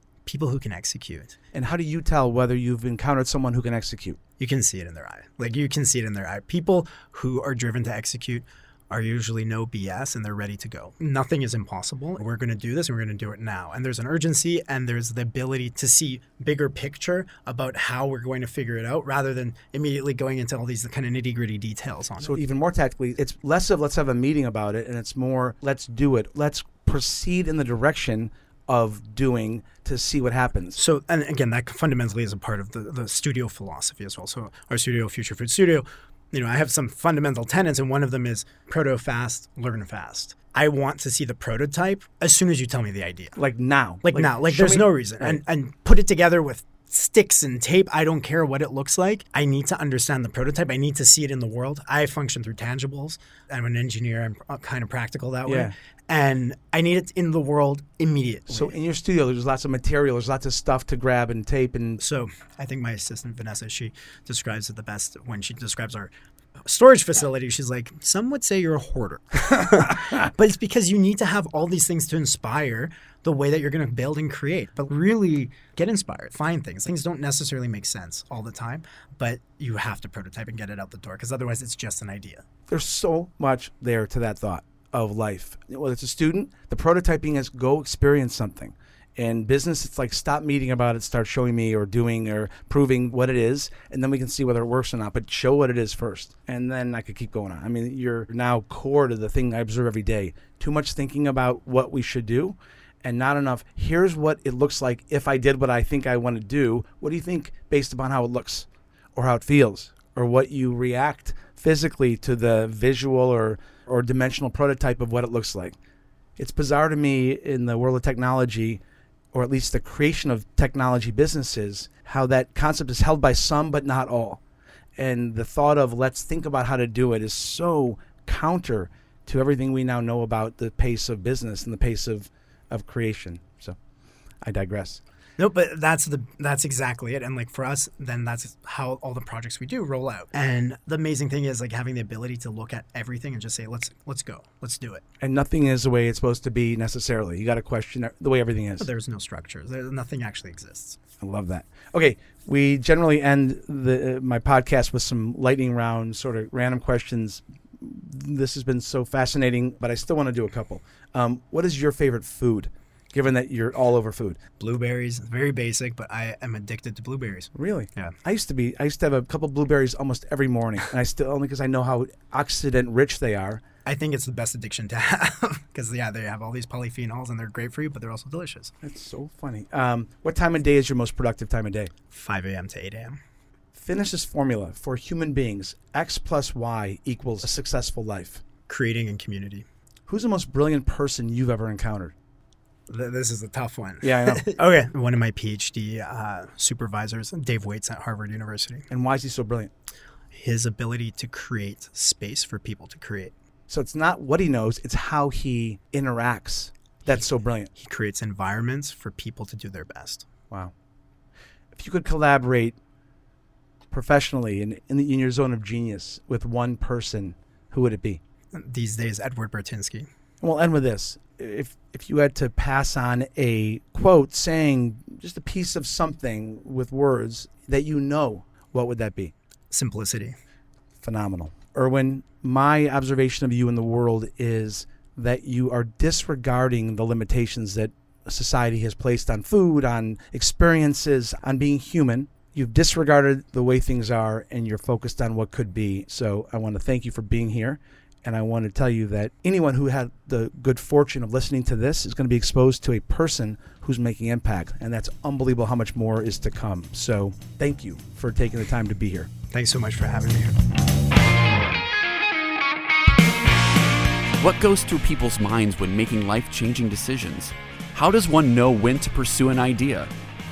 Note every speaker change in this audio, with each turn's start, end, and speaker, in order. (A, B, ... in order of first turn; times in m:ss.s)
0:00.3-0:01.4 A
0:01.5-0:04.2 B
0:04.4-0:22.4 A
0:22.2-0:30.8 B
0:30.8-0:43.4 A
0:43.4-0:45.4 B
0:44.0-0:58.8 A
0:55.4-0:55.7 B
0:58.5-1:02.0 B
1:02.0-1:06.1 A
1:06.6-1:22.4 A
1:22.7-1:55.8 B
1:56.4-1:58.8 B
1:59.3-2:04.4 B
2:05.0-2:13.8 B
2:14.4-2:15.0 B
2:15.4-2:25.0 A
2:25.2-2:28.9 B
2:28.8-2:31.0 A
2:31.2-2:44.4 B
2:44.6-2:48.1 A
2:47.5-2:53.6 B
2:53.9-2:58.7 A
2:58.8-3:01.9 B
3:02.1-3:03.2 A
3:03.7-3:08.4 B
3:08.7-3:09.6 A
3:10.1-3:12.1 B
3:12.9-3:18.9 A
3:14.0-3:14.4 B
3:18.9-3:19.7 B
3:20.4-3:23.3 A
3:23.7-3:27.7 B
3:27.0-3:30.3 A
3:31.7-3:32.8 B
3:33.9-3:38.2 B
3:38.5-3:40.1 A
3:40.4-3:49.3 B
3:49.7-3:50.4 A
3:51.0-4:19.3 B
4:19.5-4:20.6 A
4:24.4-4:30.1 C